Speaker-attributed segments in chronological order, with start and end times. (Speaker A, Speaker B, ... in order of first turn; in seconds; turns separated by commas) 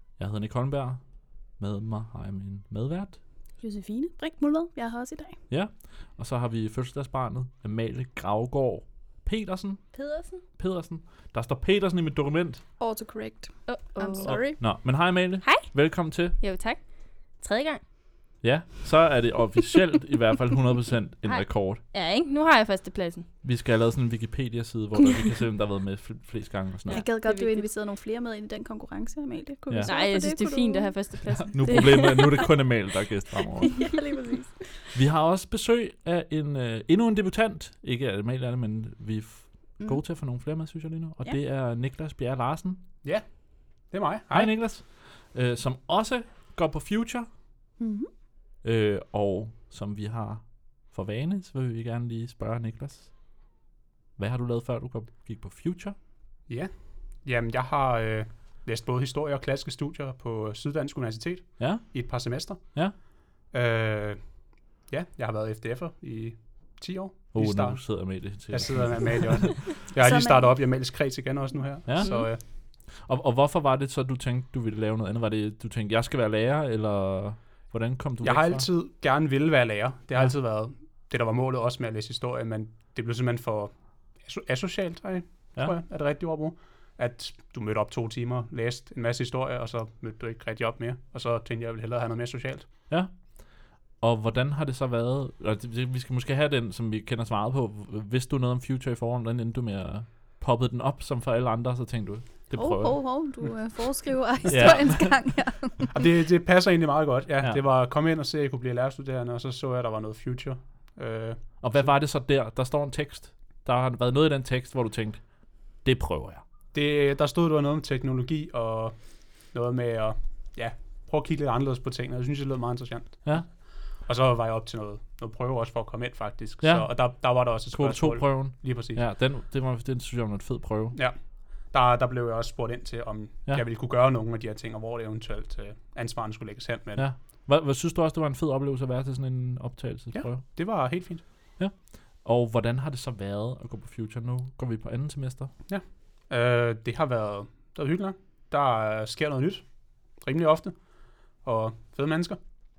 Speaker A: 0.2-3.2, Speaker B: 3.6-5.4, Speaker A: 5.5-12.7, Speaker C: 9.9-10.4, Speaker B: 12.8-14.6, Speaker C: 13.7-17.9, Speaker A: 14.2-16.4, Speaker A: 18.4-21.8, Speaker C: 21.2-23.3, Speaker A: 23.4-27.1, Speaker C: 26.9-27.7, Speaker B: 26.9-31.8, Speaker A: 29.7-30.0, Speaker C: 29.8-32.5, Speaker A: 31.4-34.0, Speaker B: 33.7-34.9, Speaker A: 34.9-42.9, Speaker B: 39.8-40.5, Speaker D: 43.0-44.5, Speaker A: 44.3-47.3, Speaker B: 47.8-48.1, Speaker A: 48.6-53.5, Speaker A: 54.1-56.0, Speaker D: 56.5-72.4, Speaker A: 61.6-63.0, Speaker A: 67.3-69.3, Speaker B: 70.0-70.6, Speaker A: 71.8-78.7, Speaker B: 72.0-72.3, Speaker D: 78.2-92.7, Speaker A: 92.9-103.7, Speaker B: 102.5-105.9, Speaker A: 104.4-105.4, Speaker D: 105.9-112.0, Speaker A: 111.6-116.5, Speaker D: 116.7-129.0, Speaker A: 123.2-123.5, Speaker A: 126.6-131.0, Speaker D: 130.9-137.1, Speaker A: 136.9-145.6, Speaker D: 140.1-141.2, Speaker D: 145.7-152.4